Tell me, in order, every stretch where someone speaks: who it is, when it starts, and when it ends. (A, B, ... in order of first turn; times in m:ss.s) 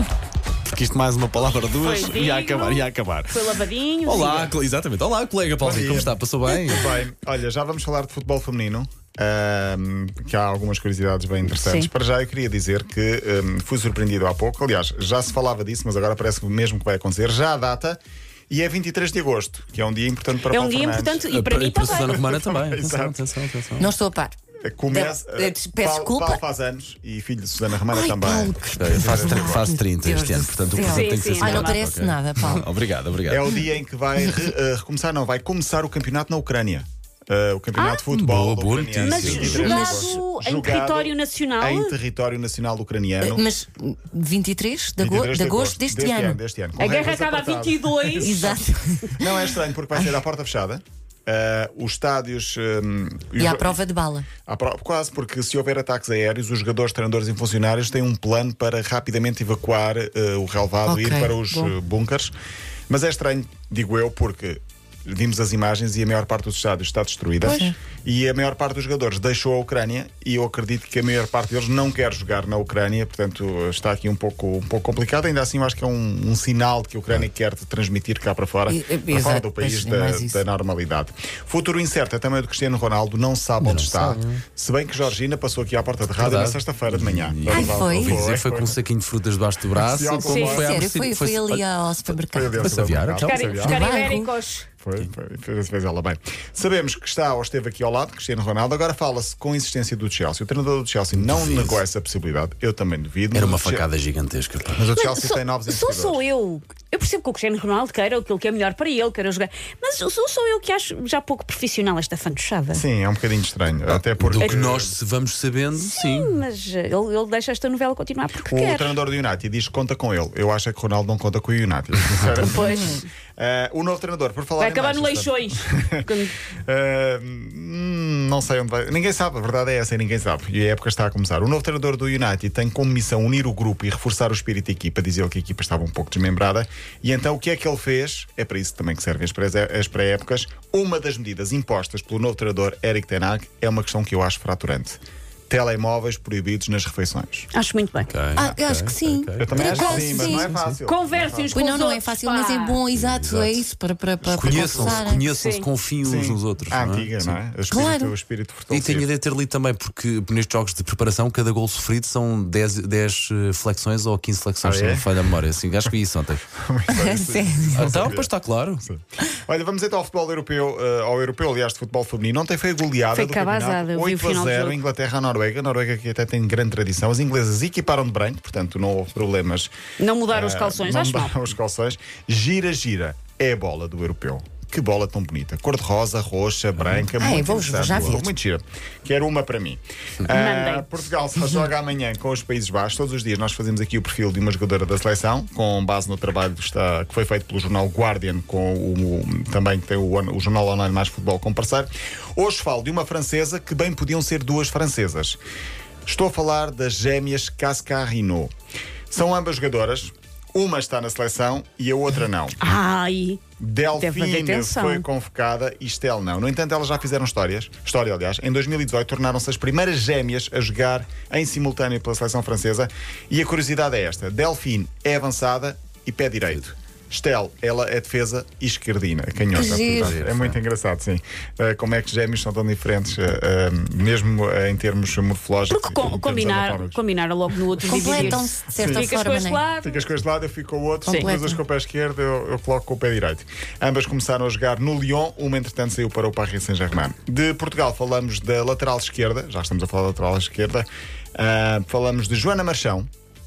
0:00.7-0:03.4 A
0:01.8-0:04.5 B
0:04.0-0:06.8 A
0:05.6-0:18.0 C
0:11.5-0:11.9 B
0:18.5-0:21.3 C
0:20.4-0:22.2 B
0:21.3-0:23.9 A
0:22.0-0:23.3 C
0:23.8-0:24.4 D
0:24.6-0:29.4 C
0:24.9-0:26.4 D
0:27.8-0:32.7 D
0:28.7-0:33.5 A
0:29.2-0:29.7 B
0:30.7-0:31.8 B
0:33.3-0:43.4 C
0:34.2-0:34.5 D
0:37.8-0:38.0 B
0:38.1-0:39.8 A
0:39.0-0:41.9 B
0:39.5-0:40.2 D
0:43.2-0:46.4 D
0:45.0-0:53.8 C
0:46.8-0:48.6 B
0:48.2-0:49.4 D
0:53.4-0:54.3 D
0:54.4-1:02.3 C
1:00.9-1:01.7 D
1:02.9-1:28.8 C
1:07.4-1:07.7 D
1:18.7-1:20.4 D
1:23.6-1:24.4 A
1:26.2-1:31.6 A
1:27.5-1:28.2 D
1:29.8-1:30.8 C
1:30.2-1:32.9 D
1:30.2-1:30.7 B
1:32.2-1:34.1 C
1:32.6-1:33.5 A
1:33.2-1:34.7 B
1:33.6-1:34.3 D
1:34.8-1:43.8 C
1:41.1-1:41.8 A
1:43.3-1:44.9 A
1:44.7-1:46.2 C
1:45.0-1:52.8 B
1:52.7-1:55.0 C
1:54.2-1:56.3 A
1:55.8-1:58.9 B
1:58.5-2:06.1 C
2:02.4-2:03.0 B
2:04.6-2:06.3 B
2:06.7-2:27.5 C
2:27.5-2:28.1 B
2:28.1-2:30.2 A
2:28.4-2:30.7 D
2:29.4-2:31.6 C
2:29.8-2:32.8 B
2:31.5-2:35.2 D
2:32.9-2:33.6 A
2:34.3-2:35.0 C
2:34.4-2:37.4 A
2:35.1-2:35.7 B
2:36.0-2:39.1 C
2:37.7-2:38.1 D
2:38.7-2:46.4 A
2:44.6-2:45.1 C
2:46.5-2:59.8 C
2:46.9-2:47.9 D
2:47.7-2:48.8 A
2:53.1-2:54.8 B
3:00.0-3:01.4 B
3:00.3-3:25.4 C
3:06.8-3:07.0 A
3:07.2-3:08.3 D
3:10.2-3:10.9 B
3:26.1-3:28.5 C
3:29.1-3:32.6 C
3:32.6-3:33.4 B
3:33.6-3:57.0 C
3:33.9-3:35.0 B
3:49.5-3:50.2 D
3:49.9-3:50.6 A
3:55.7-4:00.1 B
3:57.8-3:59.6 D
3:57.9-3:59.2 C
3:59.8-4:13.1 C
4:01.1-4:01.3 B
4:01.1-4:01.6 D